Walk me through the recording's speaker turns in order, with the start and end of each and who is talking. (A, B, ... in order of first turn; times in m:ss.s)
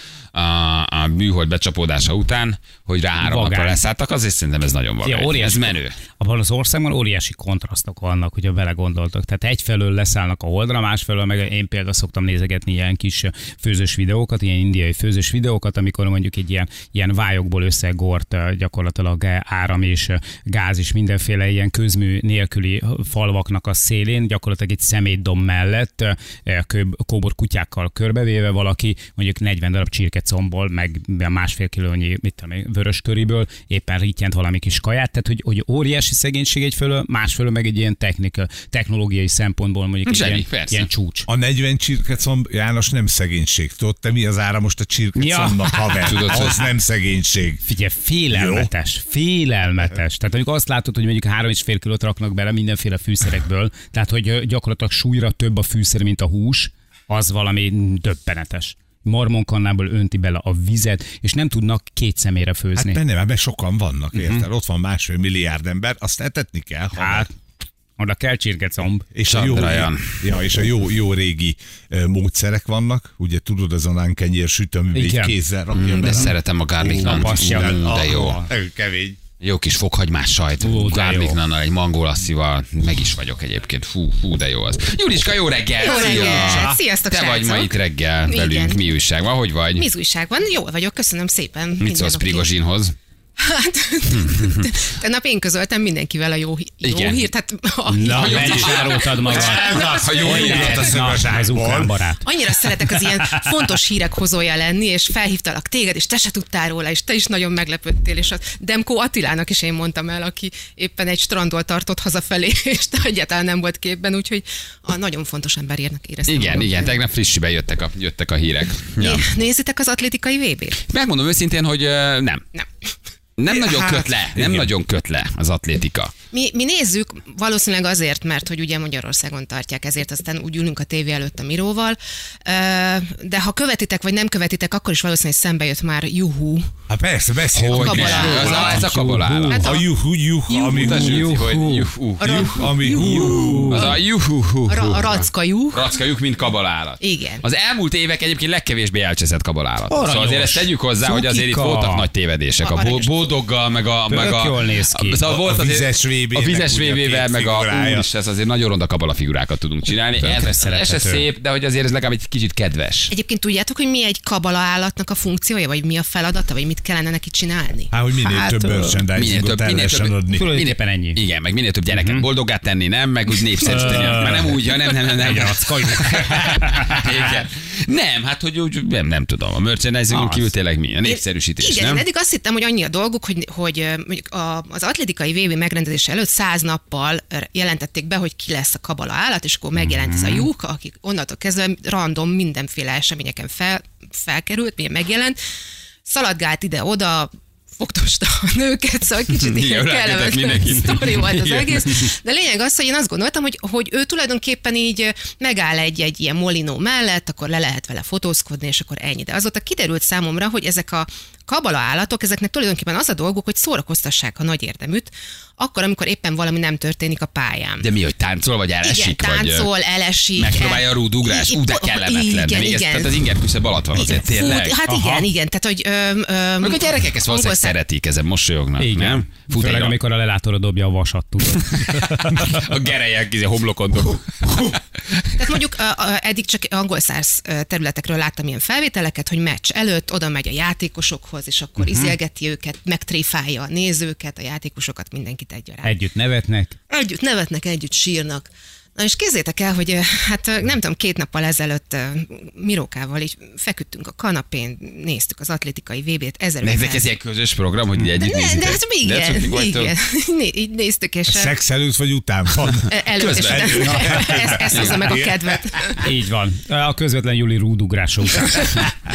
0:00.3-0:06.0 A
0:03.2-0:03.8 B
0:05.0-0:41.3 B
0:40.0-0:40.9 A
0:41.3-0:47.6 C
0:45.2-0:46.5 B
0:46.0-0:46.6 A
0:47.6-1:03.0 B
0:48.3-0:48.7 C
1:02.8-1:07.3 C
1:04.1-1:04.4 B
1:07.0-1:07.3 B
1:08.0-1:09.1 B
1:09.1-1:19.2 C
1:09.2-1:10.2 A
1:14.9-1:15.4 B
1:15.7-1:18.4 A
1:16.9-1:18.5 B
1:19.4-1:29.9 A
1:20.6-1:21.4 B
1:25.8-1:28.8 D
1:25.8-1:26.8 C
1:29.8-1:32.5 D
1:31.8-1:33.0 A
1:33.4-1:40.1 D
1:34.2-1:34.7 A
1:36.8-1:37.2 A
1:37.9-1:42.2 B
1:38.0-1:41.9 C
1:38.1-1:41.3 A
1:42.2-1:57.0 D
1:42.9-1:43.5 B
1:56.3-1:59.2 A
1:59.0-2:00.8 D
2:00.9-2:02.4 A
2:03.4-2:06.1 A
2:04.3-2:04.7 C
2:06.3-2:16.7 D
2:16.9-2:18.8 C
2:17.5-2:19.6 A
2:17.7-2:18.9 D
2:18.2-2:19.8 B
2:19.5-2:19.9 D
2:19.5-2:21.4 C
2:20.5-2:43.1 A
2:20.8-2:21.9 B
2:22.2-2:24.0 D
2:22.2-2:23.8 C
2:23.4-2:23.8 B
2:24.7-2:25.9 D
2:27.0-2:27.5 D
2:29.9-2:32.1 B
2:32.6-2:33.2 D
2:34.1-2:35.2 B
2:35.2-2:38.1 C
2:40.2-2:41.3 B
2:43.1-2:49.0 D
2:47.9-2:50.5 C
2:49.1-3:02.0 A
2:50.3-2:51.2 B
2:51.9-2:52.3 B
2:53.6-2:54.6 B
2:53.6-2:54.1 D
2:55.2-2:57.1 B
3:00.1-3:00.5 B
3:01.0-3:15.4 D
3:10.0-3:10.5 B
3:16.1-3:37.9 D
3:19.3-3:22.0 A
3:37.8-3:39.7 A
3:38.8-3:43.2 D
3:40.4-3:44.8 A
3:43.9-3:47.8 D
3:44.9-3:45.3 B
3:46.6-3:50.0 A
3:48.8-3:52.2 B
3:51.5-3:55.3 A
3:55.4-4:05.9 D
4:01.8-4:02.2 B
4:05.8-4:06.8 B
4:06.9-4:17.1 D
4:16.6-4:19.9 A
4:18.2-4:21.5 D
4:21.3-4:25.4 C
4:22.9-4:26.1 D
4:23.2-4:25.2 A
4:26.0-4:28.9 B